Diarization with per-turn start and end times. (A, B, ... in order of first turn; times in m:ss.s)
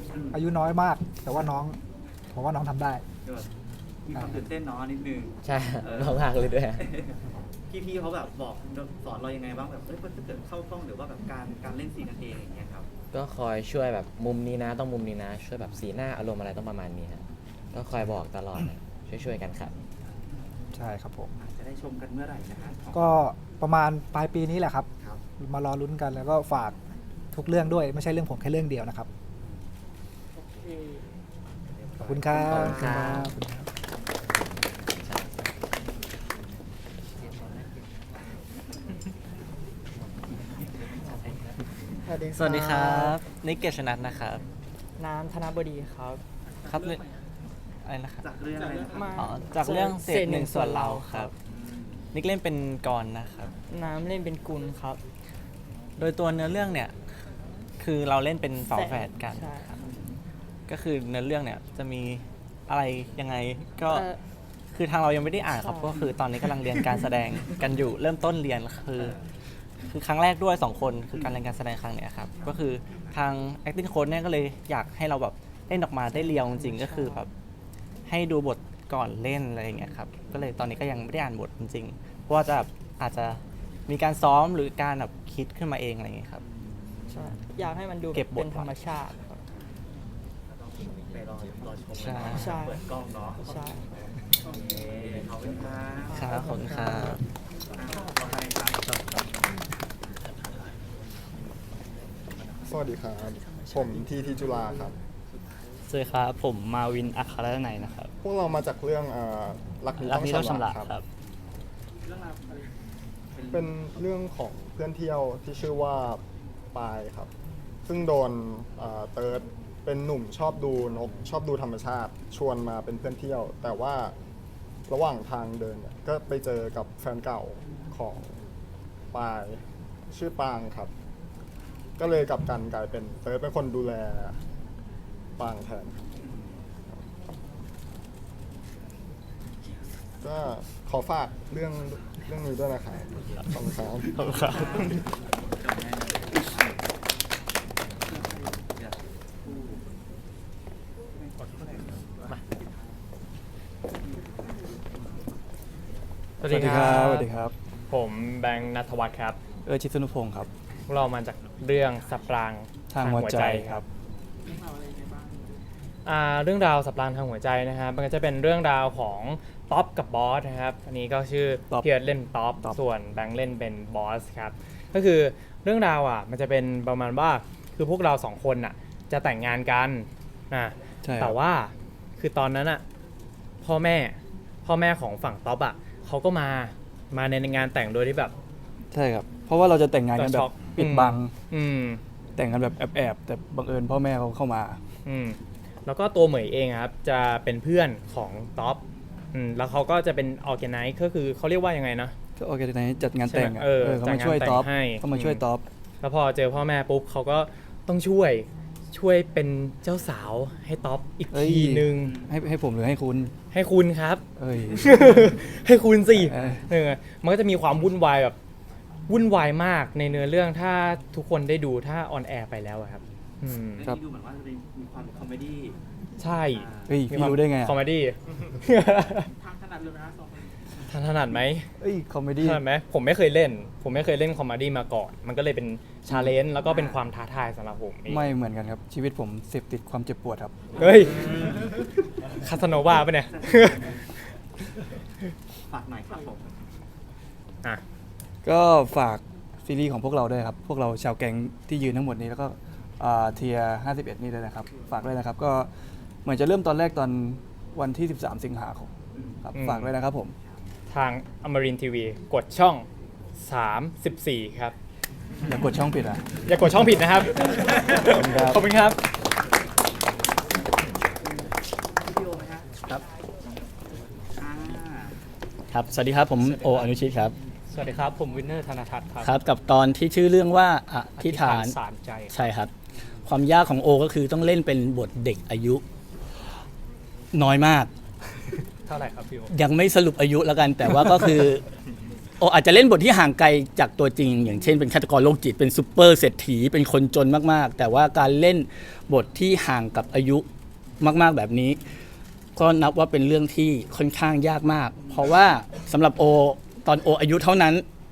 0:00.1-0:00.4 A
0:00.3-0:01.8 B
0:02.3-0:03.0 B
0:04.0-0:07.2 A
0:05.4-0:06.9 C
0:07.7-0:12.9 A
0:13.1-0:19.7 C
0:20.7-0:21.3 B
0:21.4-0:23.2 A
0:22.9-0:24.8 B
0:25.4-0:26.8 B
0:27.3-0:29.1 B
0:30.3-0:31.1 D
0:32.0-0:33.7 B
0:32.4-0:33.3 C
0:42.0-0:43.2 E
0:42.3-0:44.4 F
0:45.0-0:46.2 E
0:46.4-0:47.2 D
0:46.7-0:47.0 F
0:47.8-0:48.3 F
0:48.2-0:49.3 A
0:48.6-0:49.2 D
0:48.9-0:51.3 E
0:49.2-0:51.3 F
0:51.5-0:52.0 A
0:52.1-0:53.5 F
0:53.7-0:55.0 E
0:56.0-0:57.0 F
0:57.8-0:59.6 F
0:58.7-0:59.8 E
1:00.7-1:04.1 F
1:03.9-1:04.2 E
1:04.7-1:09.2 F
1:05.6-1:06.1 E
1:09.9-1:17.3 F
1:16.7-1:17.2 E
1:18.0-1:26.4 F
1:27.1-1:29.4 E
1:28.1-1:28.8 F
1:31.1-1:36.3 A
1:31.9-1:32.5 F
1:32.3-1:32.8 E
1:33.4-1:33.8 E
1:34.4-1:35.0 D
1:36.1-1:37.2 F
1:36.1-1:37.1 E
1:37.8-1:39.0 A
1:42.6-1:45.0 G
1:43.5-1:43.8 F
1:45.9-1:48.1 F
1:48.2-1:51.0 G
1:50.0-1:51.0 F
1:52.0-1:52.7 D
1:53.4-1:53.7 A
1:53.5-1:56.2 G
1:56.7-1:57.3 G
1:57.9-2:04.1 G
2:04.9-2:08.3 G
2:09.1-2:10.9 G
2:12.0-2:14.3 G
2:15.4-2:16.0 G
2:16.2-2:16.6 A
2:20.2-2:24.6 G
2:24.2-2:24.9 F
2:24.4-2:25.0 A
2:25.6-2:26.8 A
2:28.8-2:29.8 A
2:31.1-2:32.7 A
2:36.4-2:37.5 H
2:36.4-2:37.2 I
2:37.9-2:39.4 I
2:39.6-2:40.5 H
2:40.9-2:43.8 I
2:42.9-2:43.8 H
2:44.4-2:45.6 D
2:46.0-3:02.8 I
3:01.0-3:01.4 H
3:03.6-3:08.3 I
3:08.9-3:11.3 H
3:10.1-3:12.0 I
3:12.4-3:14.8 H
3:15.0-3:18.8 I
3:19.3-3:22.1 I
3:22.4-3:25.6 H
3:23.2-3:25.4 I
3:26.0-3:32.1 I
3:31.3-3:33.3 H
3:32.0-3:32.3 A
3:33.5-3:38.4 I
3:34.4-3:35.3 H
3:36.1-3:36.7 H
3:39.1-3:43.8 I
3:43.7-3:45.8 A
3:46.2-3:49.3 I
3:46.5-3:47.0 A
3:46.8-3:47.8 H
3:49.4-3:50.6 D
3:50.9-3:51.7 I
3:51.8-3:52.6 H
3:52.4-3:58.2 I
3:56.6-3:57.0 A
3:58.1-4:00.7 H
4:00.8-4:01.5 I
4:01.1-4:01.6 A
4:02.4-4:04.2 I
4:03.3-4:03.9 A
4:05.7-4:06.5 A
4:08.4-4:15.7 H
4:16.2-4:18.9 H
4:19.4-4:20.3 H
4:19.5-4:19.9 I
4:20.9-4:22.8 I
4:23.4-4:24.7 I
4:25.5-4:26.2 H
4:26.5-4:29.0 I
4:28.0-4:28.6 H
4:31.2-4:32.7 A
4:34.4-4:35.1 A
4:35.7-4:37.3 J
4:36.4-4:36.9 K
4:37.7-4:39.4 K
4:39.2-4:41.8 J
4:41.2-4:42.6 K
4:42.3-4:42.7 J
4:43.2-4:45.8 J
4:47.3-4:47.9 J
4:48.9-4:49.5 K
4:49.5-4:51.6 J
4:52.4-5:00.4 J
5:01.0-5:01.8 J
5:02.6-5:07.8 J